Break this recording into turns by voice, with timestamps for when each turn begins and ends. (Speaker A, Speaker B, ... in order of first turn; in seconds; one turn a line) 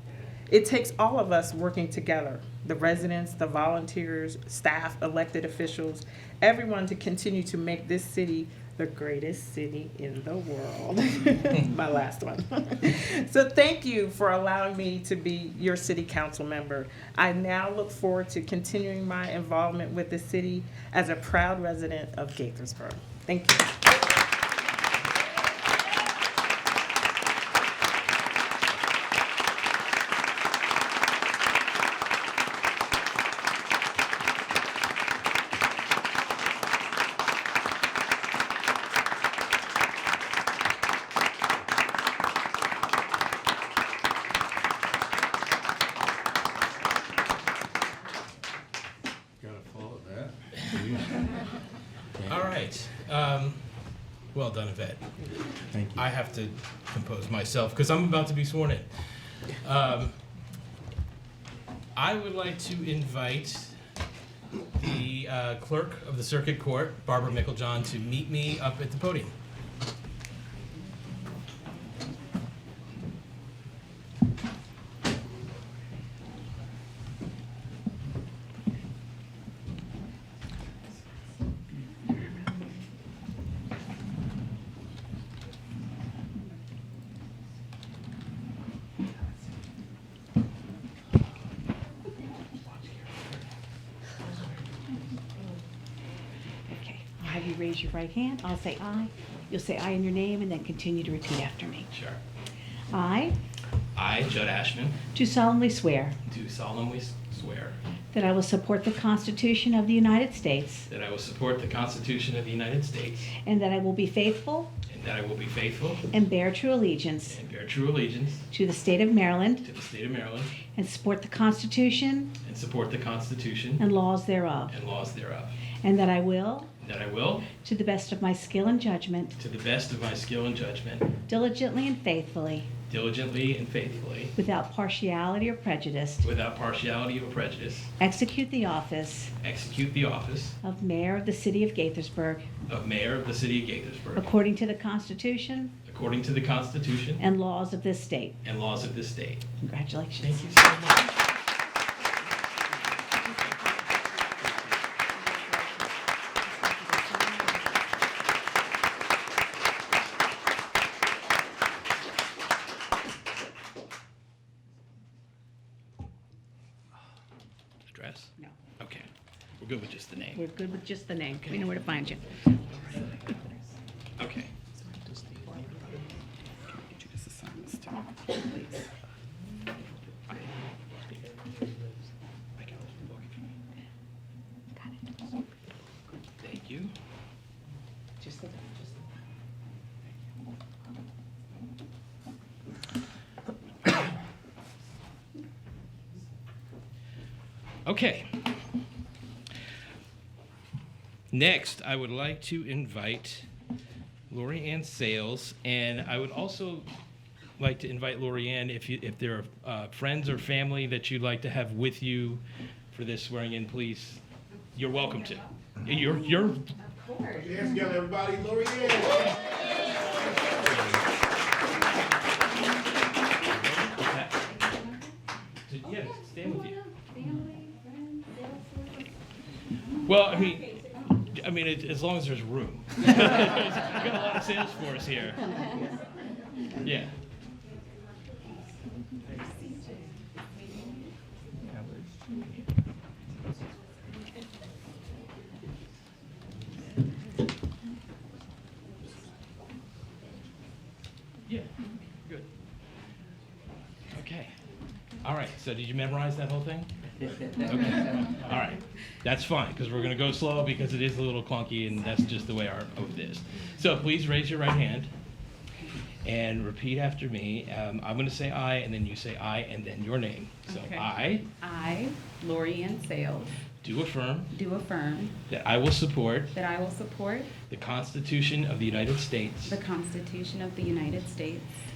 Speaker A: 0.5-23.8
Speaker B: 49.4-51.2
Speaker C: 52.2-53.6
Speaker C: 54.3-55.0
Speaker B: 55.7-56.0
Speaker C: 55.9-60.1
Speaker C: 62.0-63.8
Speaker C: 64.8-69.3
Speaker C: 92.8-93.3
Speaker D: 96.8-101.8
Speaker C: 101.9-102.2
Speaker D: 103.0-103.3
Speaker C: 103.9-105.1
Speaker D: 105.2-106.1
Speaker C: 106.2-107.8
Speaker D: 108.2-110.8
Speaker C: 110.9-113.3
Speaker D: 113.4-114.7
Speaker C: 114.8-116.2
Speaker D: 116.2-117.3
Speaker C: 117.2-118.5
Speaker D: 118.5-119.6
Speaker C: 119.6-120.7
Speaker D: 120.7-122.3
Speaker C: 122.4-123.9
Speaker D: 123.8-124.7
Speaker C: 124.7-125.7
Speaker D: 125.8-126.7
Speaker C: 126.8-127.6
Speaker D: 127.6-129.2
Speaker C: 129.3-131.2
Speaker D: 131.3-132.7
Speaker C: 132.9-134.3
Speaker D: 134.4-136.1
Speaker C: 136.2-137.9
Speaker D: 138.0-139.3
Speaker C: 139.4-140.6
Speaker D: 140.6-142.5
Speaker C: 142.7-144.3
Speaker D: 144.2-145.7
Speaker C: 145.8-147.2
Speaker D: 147.2-148.3
Speaker C: 148.4-149.6
Speaker D: 149.7-150.4
Speaker C: 150.2-151.2
Speaker D: 155.2-155.9
Speaker D: 156.5-157.6
Speaker C: 167.9-169.1
Speaker C: 169.6-170.5
Speaker D: 170.4-172.2
Speaker C: 171.4-171.9
Speaker C: 172.7-173.1
Speaker C: 174.2-175.6
Speaker C: 182.6-183.5
Speaker C: 186.4-186.9
Speaker C: 197.8-198.3
Speaker C: 201.3-203.5
Speaker C: 204.3-206.9
Speaker C: 207.6-214.2
Speaker C: 214.7-216.7
Speaker E: 216.8-217.9
Speaker B: 217.3-219.4
Speaker C: 223.4-224.4
Speaker E: 224.3-225.2
Speaker C: 225.7-226.8
Speaker E: 225.8-229.1
Speaker C: 230.0-235.7
Speaker C: 236.8-237.1
Speaker C: 254.1-254.5
Speaker C: 255.2-256.9
Speaker C: 257.5-265.1
Speaker C: 266.2-271.4
Speaker E: 270.6-271.1
Speaker E: 271.6-273.6
Speaker C: 273.8-274.5
Speaker E: 274.5-275.4
Speaker C: 275.5-276.5
Speaker E: 276.5-277.5
Speaker C: 277.6-279.8
Speaker E: 279.6-281.7